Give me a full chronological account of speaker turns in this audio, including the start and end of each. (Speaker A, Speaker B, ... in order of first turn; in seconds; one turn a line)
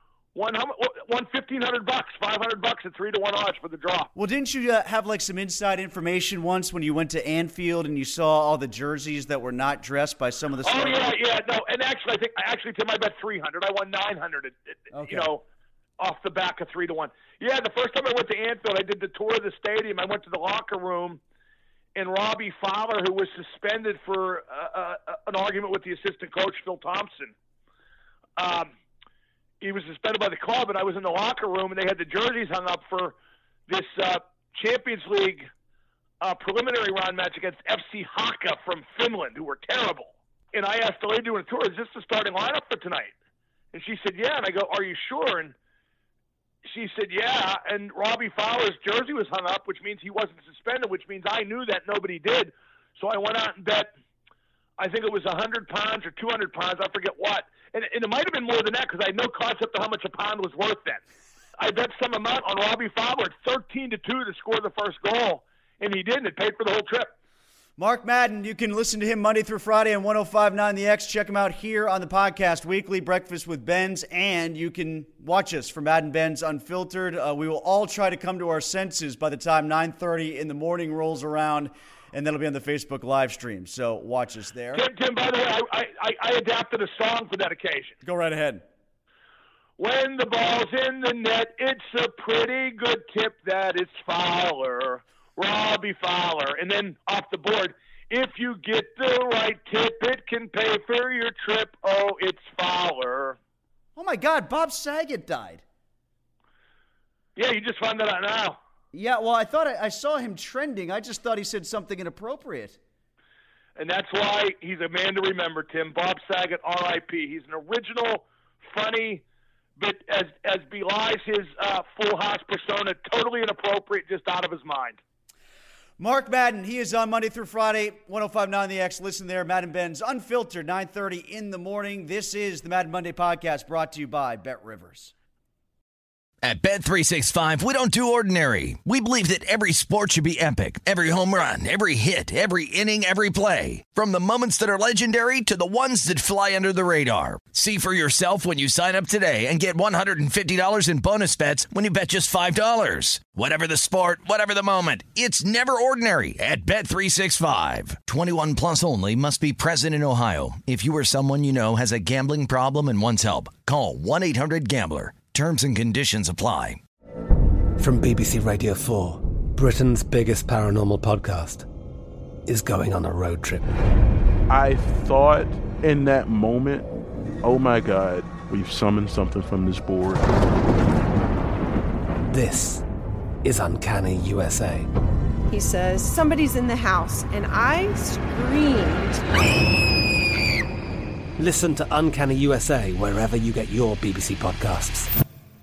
Speaker A: 0.3-4.1
Speaker B: 4.2-11.2
Speaker A: 10.6-15.4
Speaker B: 14.9-15.3
Speaker A: 16.0-21.2
Speaker A: 21.9-27.3
Speaker A: 28.4-28.7
Speaker A: 29.6-33.1
Speaker A: 33.7-35.5
Speaker A: 36.2-43.1
Speaker A: 43.7-45.5
Speaker A: 46.6-53.9
Speaker A: 54.8-61.0
Speaker A: 61.6-67.1
Speaker B: 67.8-84.8
Speaker A: 84.7-88.0
Speaker B: 88.0-88.6
Speaker A: 89.8-103.4
Speaker B: 104.0-105.6
Speaker A: 107.4-108.6
Speaker B: 108.9-112.8
Speaker A: 113.8-119.2
Speaker A: 119.8-125.0
Speaker B: 126.0-135.1
Speaker C: 136.4-166.8
Speaker D: 167.8-171.7
Speaker D: 172.5-173.7
Speaker E: 174.5-176.9
Speaker E: 177.4-180.3
Speaker D: 182.3-182.8
Speaker D: 183.4-184.9
Speaker F: 185.5-189.2
Speaker D: 191.4-195.1